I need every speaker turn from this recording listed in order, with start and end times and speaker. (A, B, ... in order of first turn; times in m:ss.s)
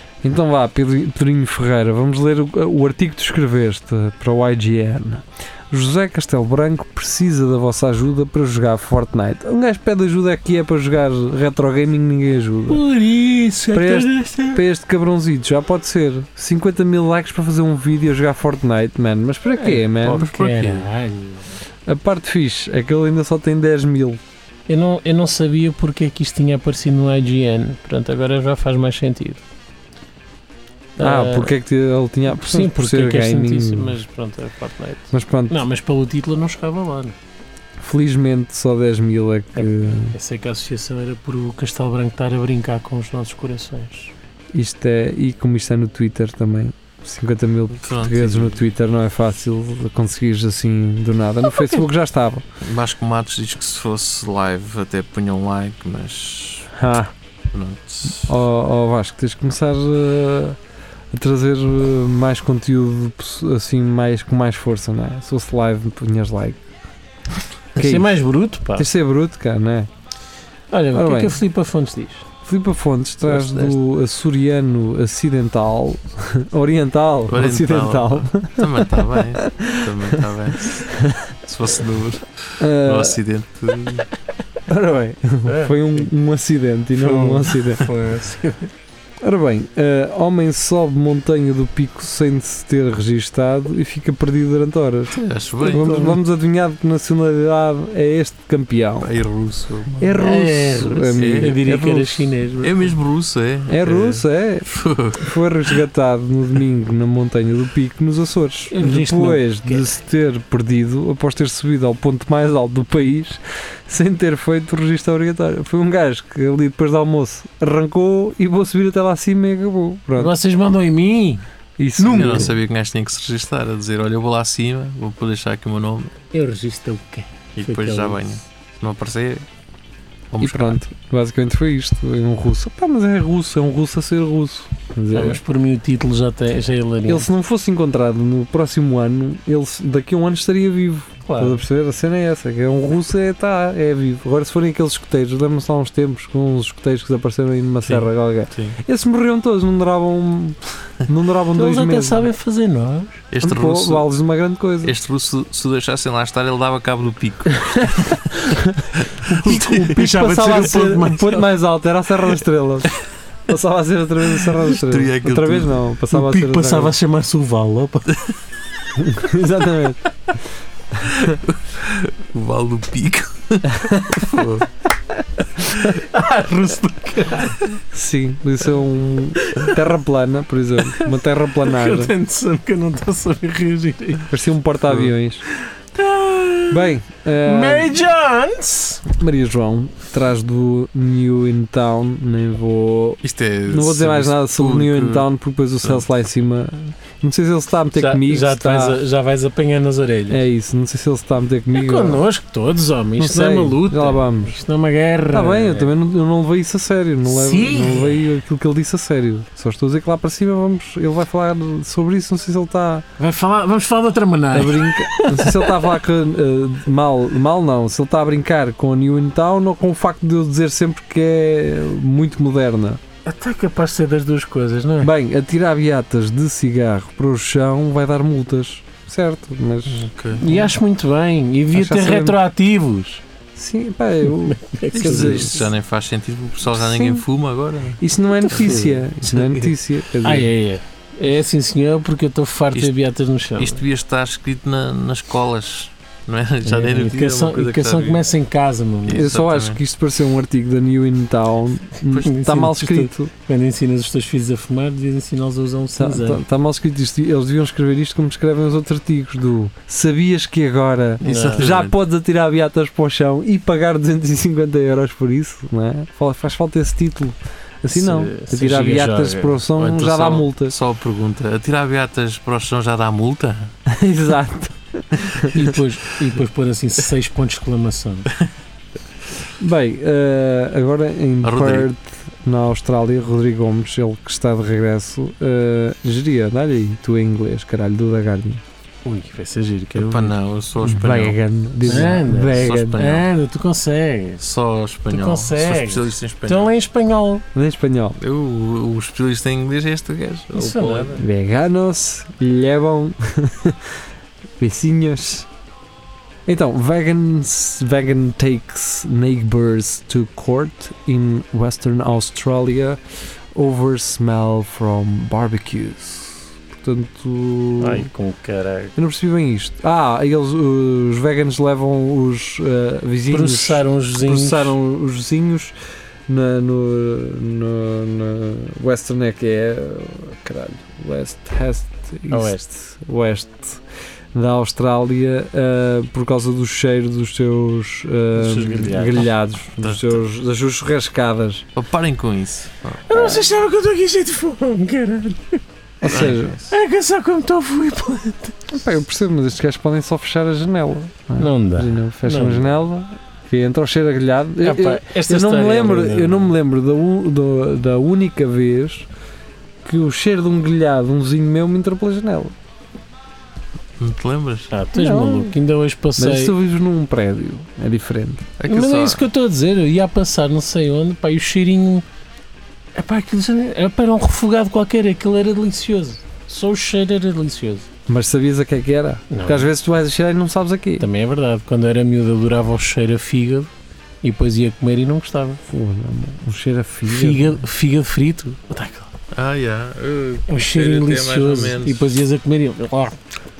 0:00.2-0:12.8 A
0:12.7-0:14.6 B
0:13.7-0:20.3 A
0:19.6-0:21.4 B
0:20.0-0:20.9 C
0:21.9-0:24.2 A
0:24.7-0:29.4 B
0:31.0-0:31.5 B
0:31.0-0:34.0 A
0:32.3-0:37.2 B
0:35.1-0:35.6 A
0:37.8-0:40.2 A
0:39.6-0:44.1 B
0:44.5-0:52.4 A
0:47.7-0:48.6 C
0:51.4-0:51.8 B
0:52.6-0:56.7 C
0:56.7-0:57.1 A
0:57.5-0:58.4 C
0:58.2-1:00.6 A
1:01.1-1:06.6 A
1:07.8-1:08.9 B
1:07.8-1:08.2 A
1:08.8-1:09.9 A
1:10.7-1:12.3 B
1:10.9-1:11.4 A
1:12.4-1:21.3 A
1:13.3-1:13.8 C
1:17.3-1:20.9 C
1:21.4-1:24.1 C
1:22.6-1:23.2 A
1:24.7-1:27.9 A
1:25.4-1:26.1 B
1:27.0-1:28.7 B
1:29.2-1:39.1 A
1:35.2-1:36.0 C
1:35.6-1:36.2 B
1:39.0-1:40.2 C
1:40.0-1:42.3 A
1:40.2-1:42.9 B
1:41.1-1:41.6 C
1:42.6-1:45.8 C
1:43.7-2:00.3 A
1:48.7-1:49.9 B
2:00.2-2:01.4 B
2:01.8-2:02.5 A
2:02.0-2:02.5 B
2:02.1-2:06.2 C
2:06.3-2:08.3 B
2:07.6-2:09.4 C
2:10.3-2:10.8 C
2:10.4-2:15.4 A
2:15.1-2:17.3 B
2:17.1-2:32.3 A
2:21.3-2:21.6 B
2:27.8-2:28.8 C
2:31.6-2:33.3 B
2:33.3-2:34.1 C
2:33.4-2:34.9 A
2:34.8-2:40.0 C
2:39.2-2:41.5 B
2:39.4-2:42.9 A
2:43.5-2:46.9 A
2:44.4-2:45.8 C
2:46.1-2:48.2 B
2:48.9-2:50.0 A
2:51.0-2:54.7 C
2:53.8-2:54.2 A
2:55.6-2:55.9 A
2:55.8-2:57.7 B
2:57.9-3:02.1 A
2:59.4-2:59.8 B
3:01.6-3:04.3 B
3:04.3-3:05.4 A
3:05.9-3:09.0 B
3:06.7-3:08.0 A
3:09.1-3:19.0 A
3:13.2-3:15.3 C
3:17.9-3:20.4 B
3:20.3-3:22.2 A
3:21.7-3:25.9 B
3:23.2-3:24.6 A
3:25.3-3:33.1 A
3:27.2-3:28.3 B
3:33.2-3:36.0 B
3:34.5-3:43.0 A
3:43.2-3:45.1 B
3:45.0-3:50.1 A
3:49.9-3:50.5 C
3:50.3-3:53.2 B
3:51.7-3:52.4 A
3:53.6-3:55.7 A
3:54.3-3:55.7 B
3:54.9-3:59.6 C
3:56.7-3:57.2 A
3:58.0-4:00.5 A
3:58.6-3:59.0 B
4:00.2-4:03.8 B
4:03.6-4:08.2 C
4:06.6-4:09.3 B
4:09.1-4:09.8 C
4:09.1-4:13.3 A
4:12.1-4:16.4 B
4:16.0-4:30.8 A
4:21.2-4:22.0 C
4:21.2-4:21.6 B
4:27.9-4:29.6 B
4:29.8-4:33.7 C
4:33.9-4:35.7 A
4:35.5-4:38.3 B
4:39.6-4:48.6 A
4:41.4-4:41.9 C
4:49.0-4:50.3 B
4:50.0-4:53.3 C
4:50.8-4:53.0 A
4:51.8-4:54.4 B
4:54.4-4:56.7 C
4:55.1-4:57.4 B
4:57.5-4:58.2 A
4:58.2-5:01.2 C
5:00.5-5:01.2 B
5:01.2-5:03.9 A
5:04.6-5:05.5 A
5:06.4-5:13.0 A
5:13.5-5:18.1 A
5:17.8-5:18.9 B
5:19.0-5:25.8 A
5:23.3-5:24.8 B
5:26.3-5:33.8 A
5:32.3-5:32.6 B
5:34.3-5:41.7 A
5:38.3-5:39.3 B
5:39.8-5:40.2 C
5:41.8-5:43.4 C
5:43.1-5:45.6 B
5:46.0-5:46.6 A
5:46.0-5:46.6 C
5:46.2-5:48.7 B
5:48.7-5:59.1 A
5:51.4-5:52.7 B
5:54.6-5:56.5 B
5:59.8-6:02.6 A
6:04.0-6:04.7 C
6:04.7-6:06.5 B
6:04.9-6:05.5 A
6:06.2-6:08.5 A
6:08.6-6:09.3 C
6:08.7-6:12.0 B
6:12.9-6:17.9 B
6:18.1-6:21.1 A
6:19.3-6:19.7 B
6:21.0-6:23.7 B
6:24.2-6:25.6 B
6:25.7-6:27.6 A
6:27.1-6:29.1 B
6:29.3-6:32.1 C
6:30.5-6:33.2 B